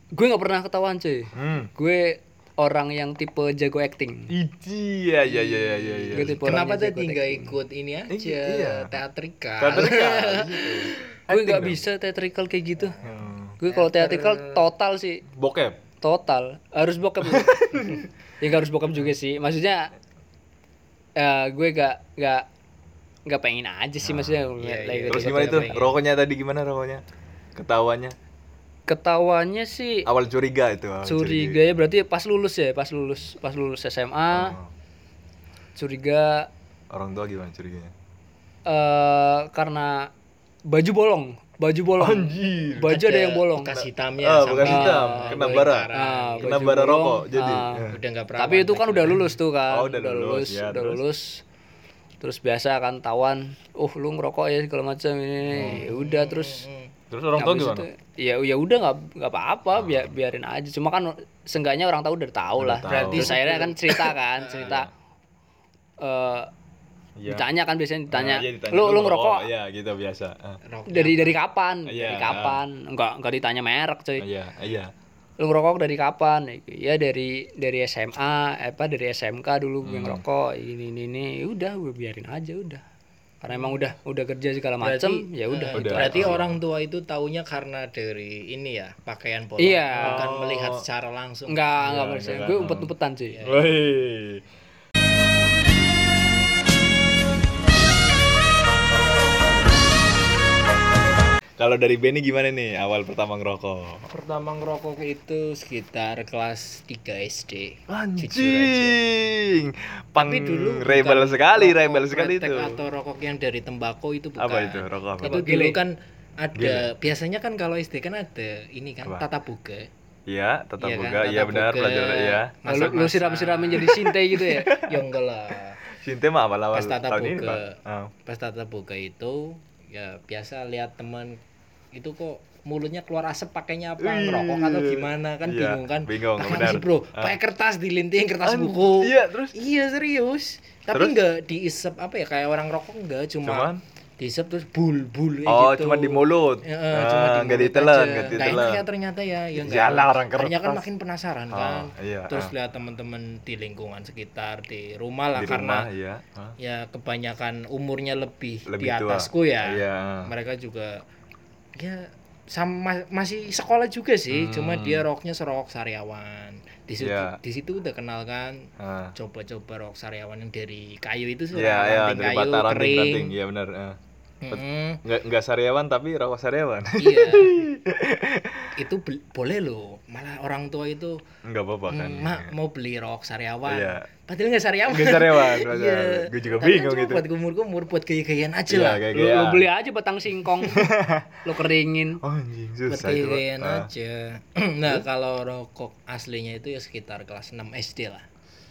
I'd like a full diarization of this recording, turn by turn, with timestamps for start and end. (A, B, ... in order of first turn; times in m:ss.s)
0:00.1-0:04.3 A
0:01.3-0:01.7 B
0:04.3-0:06.6 B
0:05.3-0:11.2 C
0:06.1-0:07.5 A
0:08.1-0:08.9 B
0:09.6-0:11.8 B
0:11.3-0:13.0 A
0:12.8-0:14.6 C
0:13.0-0:13.6 B
0:13.6-0:15.2 A
0:15.3-0:15.8 B
0:16.0-0:17.7 A
0:17.2-0:18.0 B
0:18.4-0:19.9 A
0:21.2-0:22.4 A
0:23.3-0:25.8 A
0:24.0-0:24.5 B
0:24.6-0:25.9 C
0:25.1-0:27.0 B
0:27.5-0:28.2 B
0:28.9-0:30.1 A
0:30.0-0:31.6 B
0:31.0-0:34.6 A
0:34.3-0:34.7 B
0:35.8-0:36.5 A
0:36.9-0:37.9 B
0:38.6-0:40.1 A
0:40.7-0:43.8 A
0:42.0-0:43.0 B
0:42.9-0:46.8 C
0:44.2-0:45.9 B
0:44.6-0:47.8 A
0:46.4-0:48.0 B
0:47.8-0:49.3 C
0:48.4-0:51.4 A
0:49.7-0:51.0 B
0:52.2-0:56.7 A
0:55.5-0:55.8 B
0:55.5-0:56.9 C
0:57.1-0:57.9 B
0:57.4-1:04.9 A
0:59.8-1:00.1 B
1:02.6-1:03.4 B
1:02.8-1:03.8 C
1:04.4-1:04.8 C
1:04.5-1:04.9 B
1:06.0-1:06.5 A
1:07.2-1:07.5 B
1:07.3-1:09.5 A
1:08.1-1:10.6 B
1:10.6-1:11.4 C
1:10.9-1:14.2 A
1:11.8-1:12.6 B
1:14.2-1:14.9 B
1:15.4-1:22.8 A
1:19.8-1:20.2 B
1:23.4-1:26.4 A
1:23.5-1:23.8 C
1:24.8-1:31.7 C
1:25.7-1:26.6 B
1:29.6-1:30.3 A
1:30.0-1:30.8 B
1:31.5-1:33.4 A
1:31.8-1:32.9 B
1:33.3-1:33.6 C
1:33.4-1:34.4 B
1:41.6-1:44.0 B
1:44.1-1:49.0 C
1:47.9-1:52.8 B
1:50.2-1:59.9 C
1:54.4-1:55.4 B
1:55.2-1:55.8 A
1:56.5-1:56.9 B
2:00.3-2:02.5 B
2:00.8-2:04.0 C
2:02.6-2:04.7 A
2:03.7-2:05.0 B
2:04.8-2:05.8 C
2:05.9-2:08.1 B
2:06.7-2:11.4 C
2:11.9-2:35.9 C
2:14.0-2:17.4 B
2:18.4-2:19.5 B
2:23.4-2:23.8 B
2:25.5-2:28.8 B
2:29.6-2:30.9 B
2:31.5-2:32.5 B
2:35.3-2:36.6 B
2:36.6-2:41.0 C
2:38.7-2:40.3 B
2:41.8-2:53.3 C
2:44.3-2:45.1 B
2:47.0-2:47.4 B
2:48.8-2:49.1 B
2:51.5-2:54.0 B
2:54.4-2:55.0 C
2:54.5-2:58.7 B
2:57.0-2:57.6 C
2:58.8-3:01.2 C
3:01.4-3:02.5 B
3:01.9-3:09.1 C
3:03.7-3:04.0 B
3:04.9-3:07.2 B
3:08.7-3:09.7 B
3:09.1-3:10.9 A
3:10.6-3:11.5 B
3:11.4-3:12.2 A
3:12.2-3:13.9 B
3:12.9-3:18.2 C